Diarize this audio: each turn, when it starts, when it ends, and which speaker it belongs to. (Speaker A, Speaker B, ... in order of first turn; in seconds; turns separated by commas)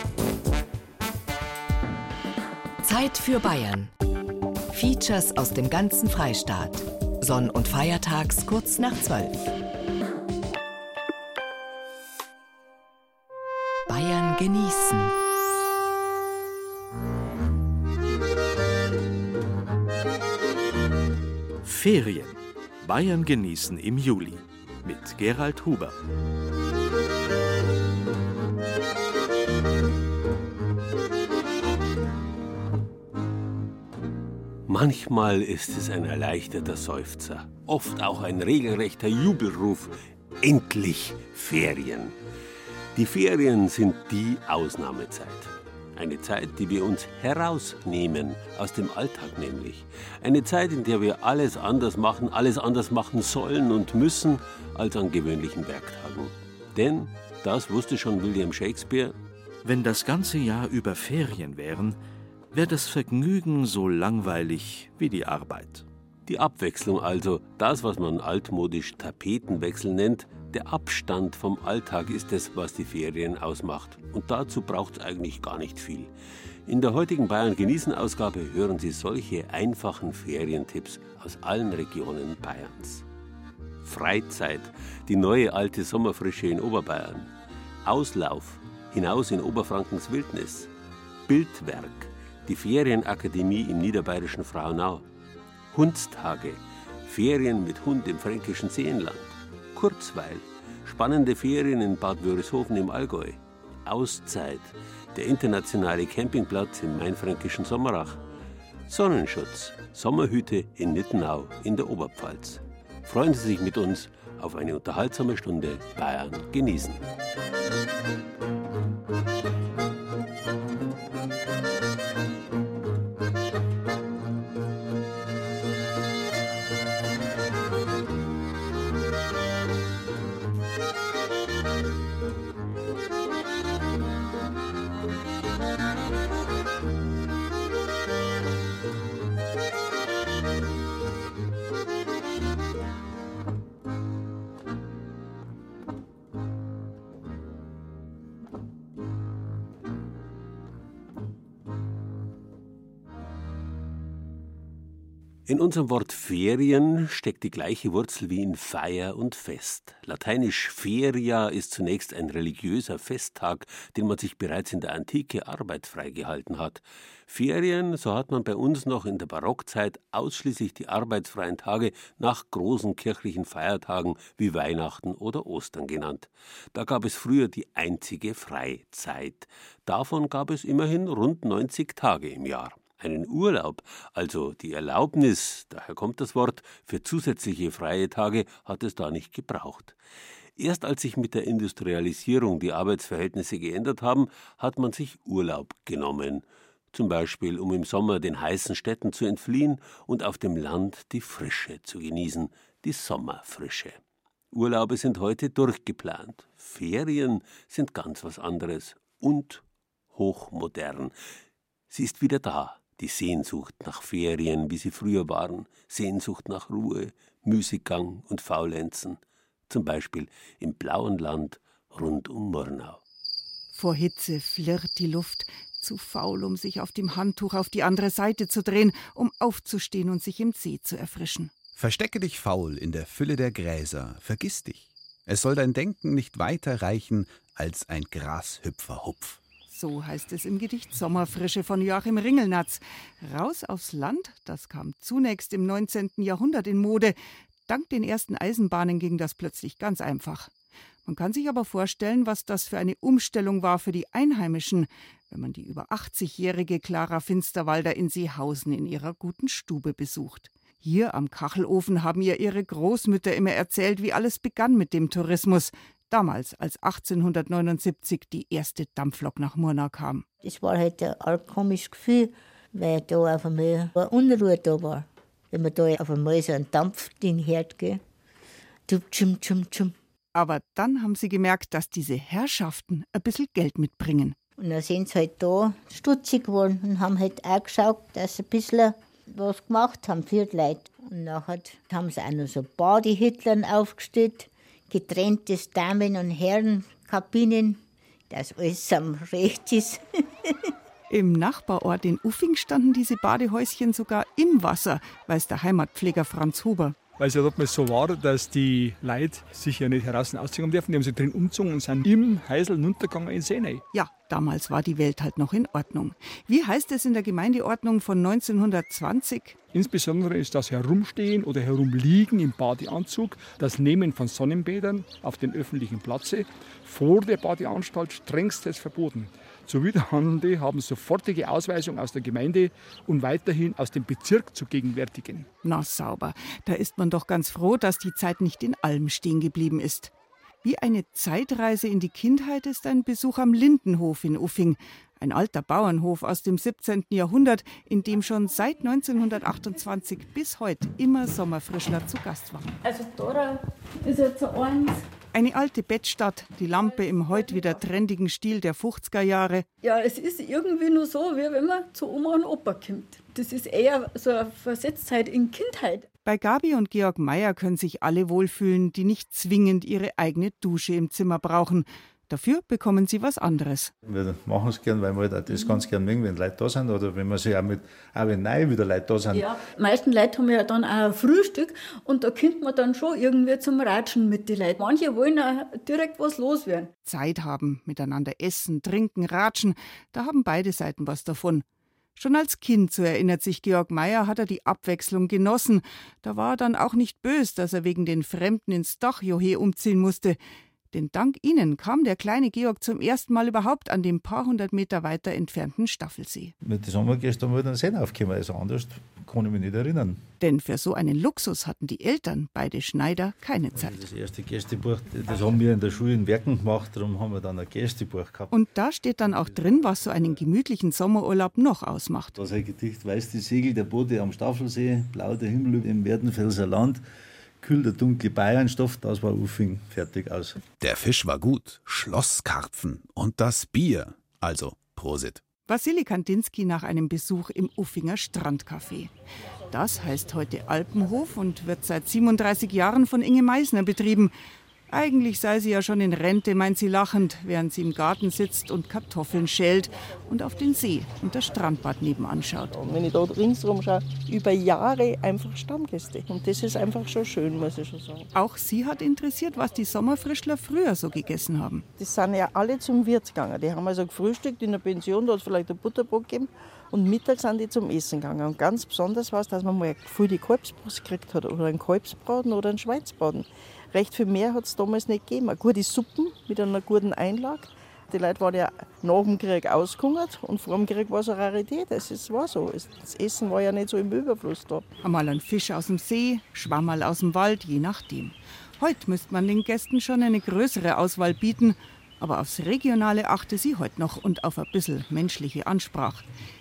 Speaker A: 2.8-3.9, Speaker A: 4.7-9.5, Speaker A: 13.9-15.1, Speaker B: 21.6-25.9, Speaker C: 34.7-42.1, Speaker C: 42.9-59.1, Speaker B: 59.6-62.0, Speaker B: 62.5-65.8, Speaker C: 66.2-76.1, Speaker C: 76.7-83.0, Speaker C: 83.8-87.3, Speaker C: 87.8-90.7, Speaker C: 91.3-95.0, Speaker C: 95.7-108.2, Speaker C: 108.9-117.0, Speaker C: 155.5-190.0, Speaker C: 190.6-204.0, Speaker C: 204.5-211.1, Speaker C: 211.9-223.0, Speaker D: 223.7-231.6, Speaker E: 231.7-239.4, Speaker D: 239.7-247.1, Speaker D: 247.7-250.5, Speaker D: 251.1-270.2, Speaker F: 270.4-278.0, Speaker F: 278.9-279.9, Speaker D: 280.3-284.4, Speaker F: 284.6-300.5, Speaker D: 301.1-307.0, Speaker G: 307.2-313.8, Speaker D: 313.9-319.6, Speaker G: 319.7-335.5, Speaker D: 335.6-340.1, Speaker D: 340.6-352.7, Speaker H: 352.8-355.0, Speaker D: 355.3-359.6, Speaker H: 357.3-357.7, Speaker H: 359.8-366.1, Speaker D: 366.2-373.9, Speaker I: 374.0-379.4, Speaker H: 375.5-375.9, Speaker H: 379.3-386.9, Speaker D: 387.0-391.6, Speaker D: 392.1-400.4, Speaker D: 400.9-406.5, Speaker I: 406.6-410.2, Speaker D: 410.4-414.0, Speaker I: 413.7-418.6, Speaker D: 418.5-422.4, Speaker I: 419.2-420.4, Speaker I: 422.4-427.0, Speaker I: 427.6-430.6, Speaker E: 430.8-435.4, Speaker D: 435.6-439.1, Speaker D: 439.7-444.3, Speaker D: 444.9-452.7, Speaker J: 452.8-458.3, Speaker D: 458.3-461.8, Speaker J: 462.0-484.9, Speaker D: 485.0-496.2